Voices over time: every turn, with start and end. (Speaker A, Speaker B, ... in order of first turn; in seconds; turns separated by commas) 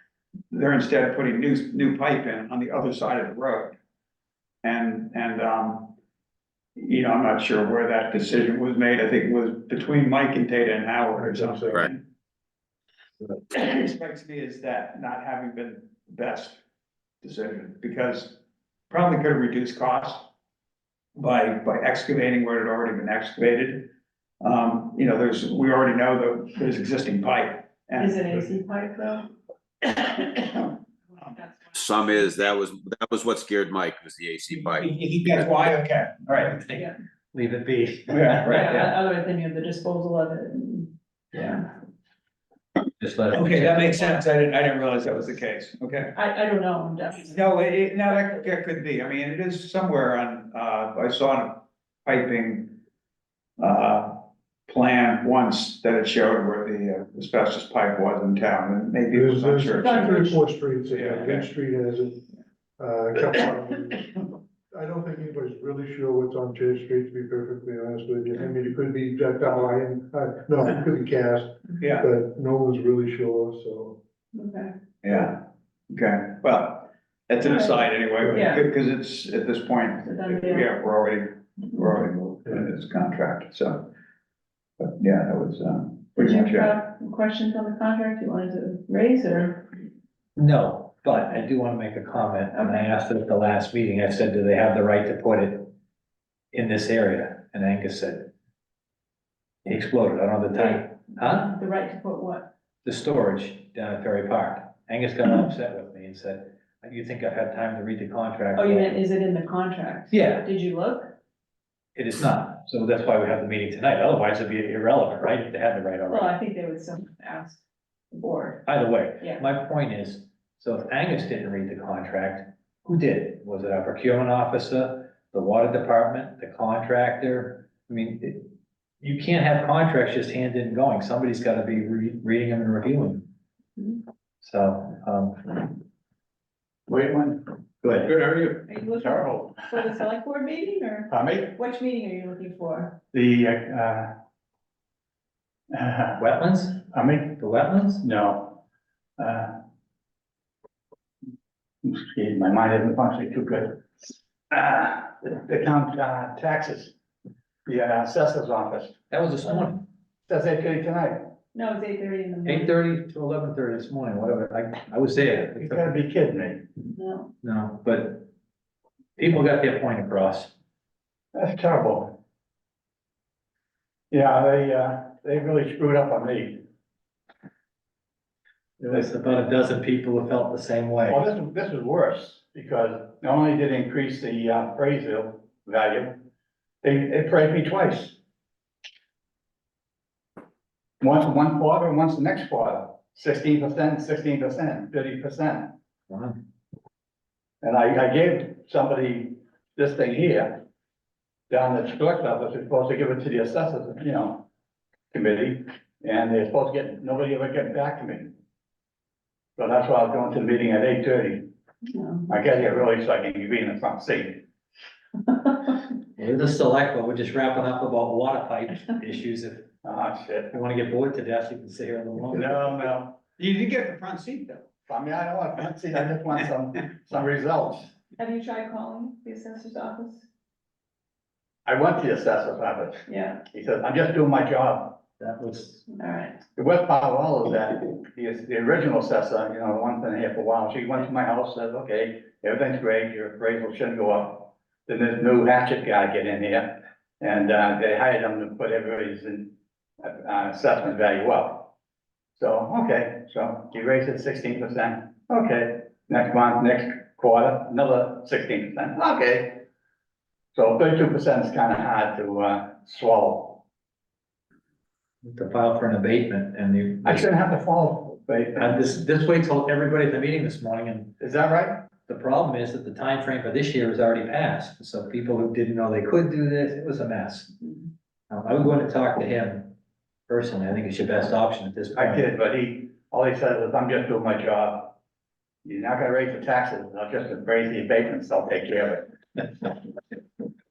Speaker A: 0.5-3.8, Speaker A: 4.6-5.9, Speaker A: 6.8-12.0, Speaker B: 11.2-11.9, Speaker A: 13.5-16.6, Speaker A: 17.2-18.4, Speaker A: 18.9-20.3, Speaker A: 21.1-23.9, Speaker A: 24.4-28.3, Speaker C: 28.0-29.3, Speaker A: 29.9-30.6, Speaker C: 31.1-32.0, Speaker D: 31.8-34.9, Speaker A: 34.5-36.8, Speaker E: 36.4-39.0, Speaker A: 38.1-38.9, Speaker C: 38.4-41.7, Speaker E: 43.0-44.2, Speaker A: 43.3-46.2, Speaker C: 46.1-48.3, Speaker A: 47.2-52.8, Speaker A: 53.6-61.5, Speaker B: 59.1-62.2, Speaker B: 62.8-74.0, Speaker A: 71.8-72.1, Speaker C: 74.3-74.7, Speaker A: 75.0-83.9, Speaker C: 77.4-77.8, Speaker C: 78.3-78.6, Speaker C: 80.0-80.7, Speaker A: 84.8-86.7, Speaker C: 86.2-89.7, Speaker E: 90.4-95.7, Speaker C: 92.5-92.8, Speaker E: 96.5-98.3, Speaker E: 99.7-101.6, Speaker C: 100.5-102.5, Speaker E: 102.8-109.1, Speaker C: 108.5-111.1, Speaker E: 110.1-110.5, Speaker E: 112.0-116.4, Speaker C: 116.1-117.6, Speaker C: 118.1-118.7, Speaker E: 118.7-133.2, Speaker C: 133.8-134.0, Speaker E: 134.4-135.7, Speaker F: 136.9-137.4, Speaker E: 137.8-138.2, Speaker F: 138.0-139.9, Speaker C: 138.6-143.0, Speaker F: 141.1-141.6, Speaker F: 143.1-144.1, Speaker F: 145.7-146.2, Speaker E: 146.2-148.0, Speaker F: 146.9-147.4, Speaker F: 148.0-148.6, Speaker F: 149.2-149.6, Speaker F: 151.8-153.8, Speaker F: 154.5-156.9, Speaker F: 157.7-159.0, Speaker E: 159.1-159.8, Speaker F: 160.3-161.4, Speaker C: 161.5-162.8, Speaker E: 162.4-166.0, Speaker F: 165.5-166.7, Speaker C: 166.9-167.3, Speaker E: 167.4-168.3, Speaker E: 169.2-170.5, Speaker F: 171.3-172.1, Speaker F: 174.1-176.6, Speaker E: 178.8-181.2, Speaker F: 181.1-186.2, Speaker F: 186.8-188.2, Speaker F: 191.0-195.7, Speaker E: 196.1-196.4, Speaker F: 197.6-200.7, Speaker F: 201.5-204.4, Speaker F: 205.1-208.3, Speaker F: 209.6-211.5, Speaker C: 211.9-212.3, Speaker F: 212.3-214.4, Speaker E: 216.2-219.7, Speaker F: 219.8-220.6, Speaker E: 220.5-222.8, Speaker A: 222.3-224.7, Speaker F: 222.3-223.1, Speaker F: 224.9-227.9, Speaker C: 228.2-230.2, Speaker F: 231.7-235.1, Speaker C: 233.1-233.4, Speaker E: 235.2-235.8, Speaker C: 235.9-236.4, Speaker F: 236.5-251.7, Speaker F: 252.4-259.6, Speaker F: 260.5-263.6, Speaker E: 265.2-267.3, Speaker F: 267.1-268.9, Speaker E: 268.6-271.2, Speaker F: 271.2-271.9, Speaker E: 272.1-277.5, Speaker E: 278.3-279.7, Speaker E: 280.3-282.2, Speaker F: 281.9-285.0, Speaker F: 285.6-289.1